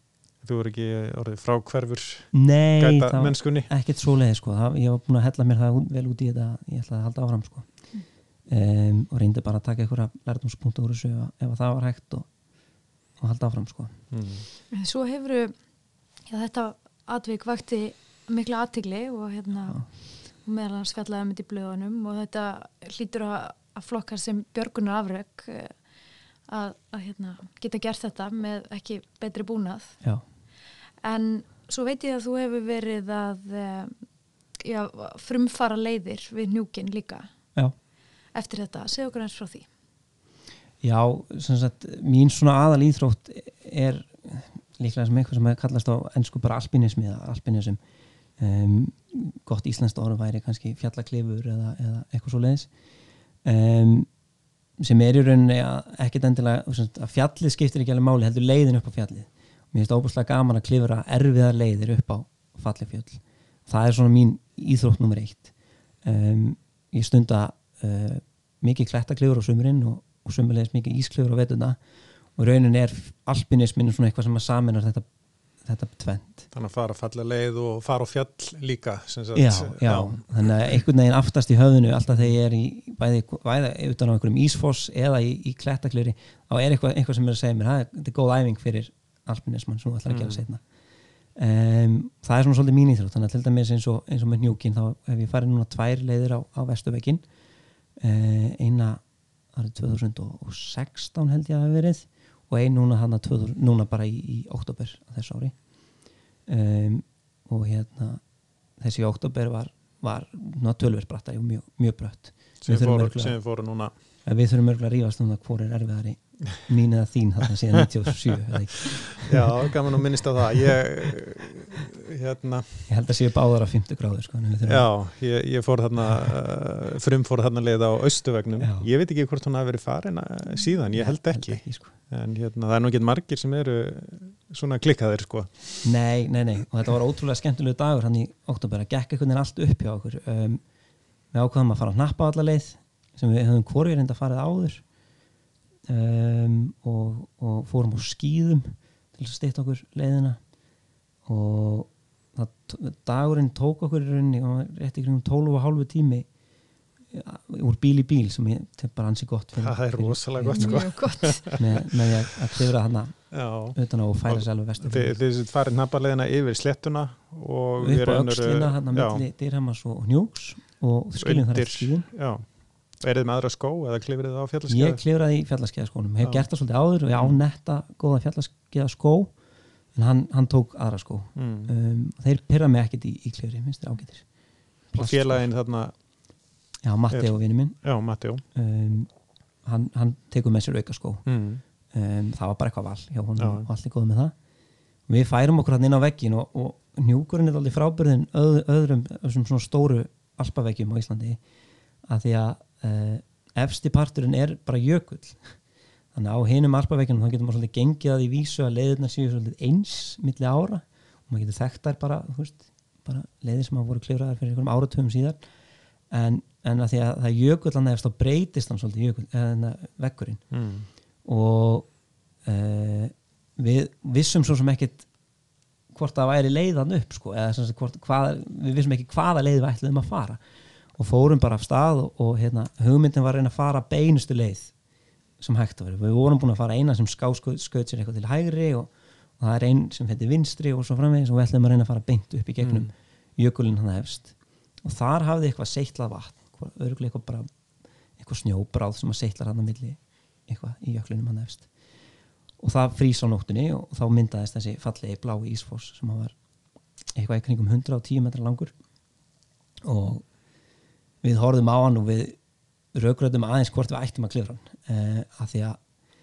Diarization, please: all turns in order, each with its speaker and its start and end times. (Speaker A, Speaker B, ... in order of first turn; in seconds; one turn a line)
Speaker A: 0.4-3.7
Speaker B: 2.3-7.7
Speaker B: 8.5-12.3
Speaker B: 13.2-13.9
Speaker A: 14.1-14.5
Speaker C: 14.7-15.6
Speaker C: 16.3-25.8
Speaker C: 26.5-30.0
Speaker C: 31.0-34.0
Speaker C: 34.6-37.3
Speaker C: 38.3-39.7
Speaker B: 40.8-47.8
Speaker B: 48.4-52.7
Speaker B: 53.4-54.1
Speaker B: 54.8-65.5
Speaker B: 66.0-71.8
Speaker B: 72.4-75.1
Speaker B: 75.6-76.5
Speaker A: 76.5-80.8
Speaker B: 79.3-90.6
Speaker A: 90.1-90.4
Speaker B: 91.3-97.2
Speaker B: 98.0-99.0
Speaker B: 99.5-105.6
Speaker B: 106.5-108.2
Speaker B: 108.8-113.4
Speaker A: 112.6-113.9
Speaker B: 114.2-119.5
Speaker A: 119.2-122.9
Speaker B: 122.9-124.9
Speaker A: 124.6-135.8
Speaker B: 128.6-128.9
Speaker B: 130.9-131.9
Speaker B: 135.8-140.6
Speaker B: 141.3-144.8
Speaker B: 145.9-150.4
Speaker B: 151.3-156.3
Speaker B: 157.1-165.1
Speaker A: 159.6-162.1
Speaker C: 160.5-161.5
Speaker A: 163.3-169.2
Speaker B: 167.8-172.1
Speaker A: 171.2-175.0
Speaker B: 174.7-179.3
Speaker A: 176.2-176.5
Speaker A: 177.1-177.4
Speaker B: 179.9-184.3
Speaker A: 181.4-181.7
Speaker B: 184.9-185.5
Speaker A: 185.0-185.9
Speaker B: 186.8-187.8
Speaker A: 187.1-188.4
Speaker B: 188.5-189.1
Speaker B: 189.6-191.2
Speaker A: 191.3-191.6
Speaker B: 191.9-194.3
Speaker A: 193.4-193.7
Speaker B: 195.1-201.4
Speaker B: 202.1-205.6
Speaker B: 206.1-215.4
Speaker B: 216.1-220.4
Speaker A: 220.5-220.9
Speaker B: 221.2-221.9
Speaker B: 222.4-225.1
Speaker B: 225.9-230.4
Speaker B: 231.0-234.7
Speaker B: 235.4-247.5
Speaker A: 242.6-242.9
Speaker B: 248.2-251.7
Speaker B: 252.6-256.4
Speaker B: 257.1-258.7
Speaker B: 259.8-260.2
Speaker B: 261.2-262.4
Speaker B: 262.9-265.8